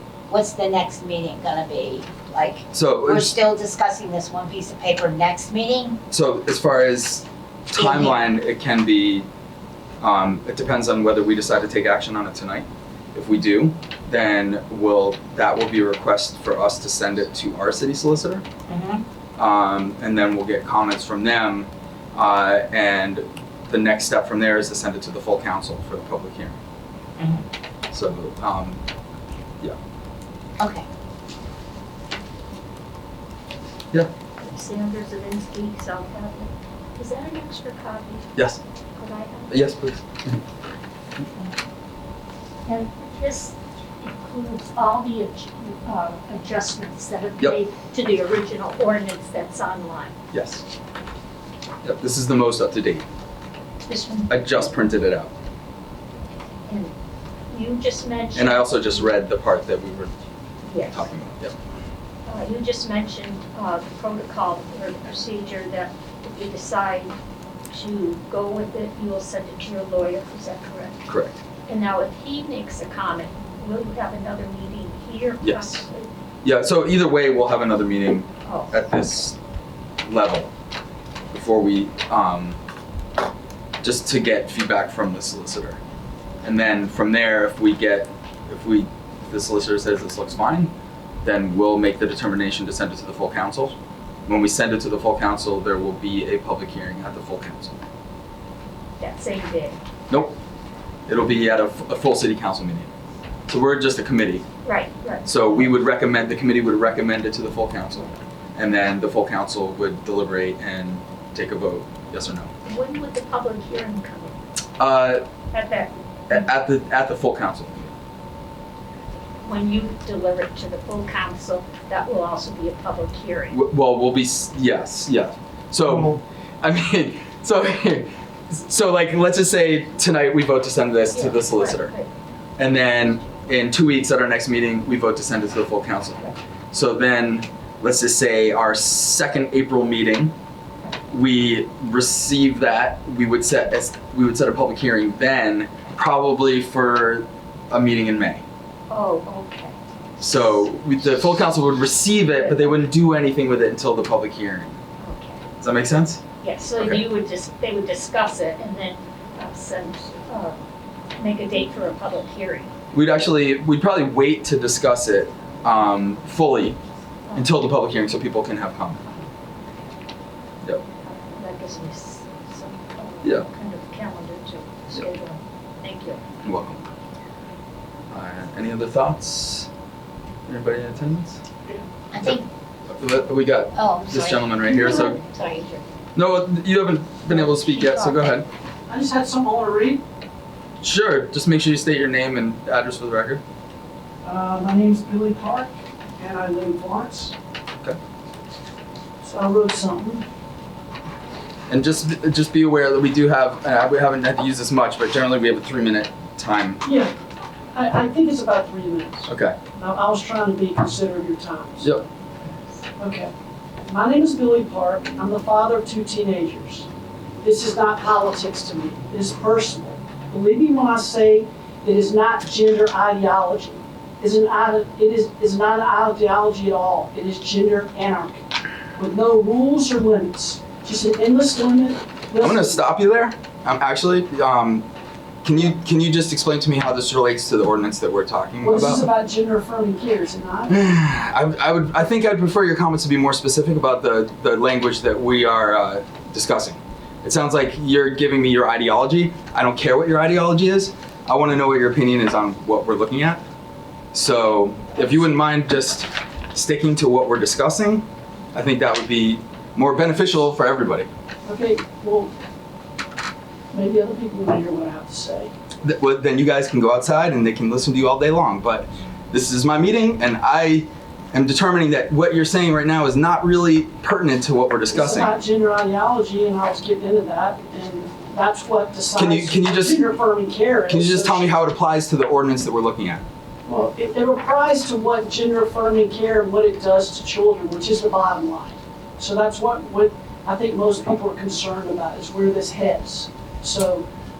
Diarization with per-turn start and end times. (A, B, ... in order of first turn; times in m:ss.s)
0:00.3-0:06.0 A
0:02.7-0:03.3 B
0:06.1-0:09.3 B
0:07.7-0:08.2 A
0:10.0-0:18.4 B
0:18.7-0:19.0 A
0:19.4-0:26.6 B
0:27.2-0:27.4 A
0:27.9-0:28.8 B
0:30.6-0:30.8 A
0:34.4-0:38.4 C
0:39.0-0:39.7 C
0:39.5-0:40.4 B
0:42.7-0:50.2 C
0:50.3-0:50.6 B
0:51.8-0:53.0 B
0:53.9-0:54.3 C
0:54.3-0:55.3 B
0:56.7-0:57.0 C
0:57.5-0:59.1 C
0:58.3-1:00.1 B
1:00.6-1:01.1 C
1:00.9-1:01.6 B
1:02.3-1:07.2 C
1:07.7-1:11.0 C
1:11.1-1:11.4 B
1:11.7-1:16.1 C
1:15.4-1:15.8 B
1:16.4-1:19.4 B
1:18.4-1:18.8 C
1:20.0-1:20.5 B
1:21.3-1:22.6 B
1:23.8-1:25.8 B
1:26.4-1:30.7 B
1:31.2-1:37.8 B
1:39.0-1:39.8 C
1:40.1-1:40.3 B
1:41.1-1:42.9 B
1:43.5-1:44.4 B
1:44.6-1:45.3 C
1:45.2-1:52.5 B
1:52.6-1:54.4 C
1:54.8-1:55.2 B
1:55.5-1:56.4 C
1:56.3-1:57.9 B
1:59.4-2:03.6 C
2:03.5-2:11.9 B
2:11.1-2:12.1 C
2:12.6-2:20.3 B
2:12.7-2:13.4 C
2:21.1-2:28.4 B
2:28.9-2:29.8 C
2:30.2-2:34.8 B
2:32.3-2:32.9 C
2:35.0-2:35.4 C
2:35.6-2:36.2 B
2:36.4-2:40.6 C
2:36.8-2:37.0 B
2:41.2-2:42.7 C
2:42.9-2:46.8 B
2:47.3-2:47.5 C
2:47.3-2:49.0 B
2:49.0-2:49.9 C
2:51.0-2:56.2 C
2:56.4-2:56.8 B
2:58.1-2:59.7 B
3:00.5-3:01.4 B
3:02.1-3:02.5 A
3:02.9-3:05.2 B
3:03.7-3:05.8 A
3:06.1-3:08.5 B
3:08.9-3:10.0 D
3:10.8-3:13.4 B
3:14.2-3:17.3 D
3:19.2-3:20.2 D
3:21.7-3:26.8 B
3:26.8-3:27.1 D
3:27.7-3:32.0 D
3:29.2-3:29.6 B
3:33.0-3:33.3 D
3:33.9-3:36.9 D
3:37.4-3:48.4 D
3:49.0-3:52.8 D
3:52.4-3:54.9 B
3:55.4-3:59.0 B
3:58.6-4:00.7 D
4:00.7-4:13.4 B
4:14.1-4:21.1 B
4:21.4-4:22.3 D
4:23.7-4:25.5 D
4:25.8-4:35.3 B
4:34.9-4:41.6 D
4:39.2-4:40.1 B
4:40.9-4:43.2 B
4:43.6-4:54.1 D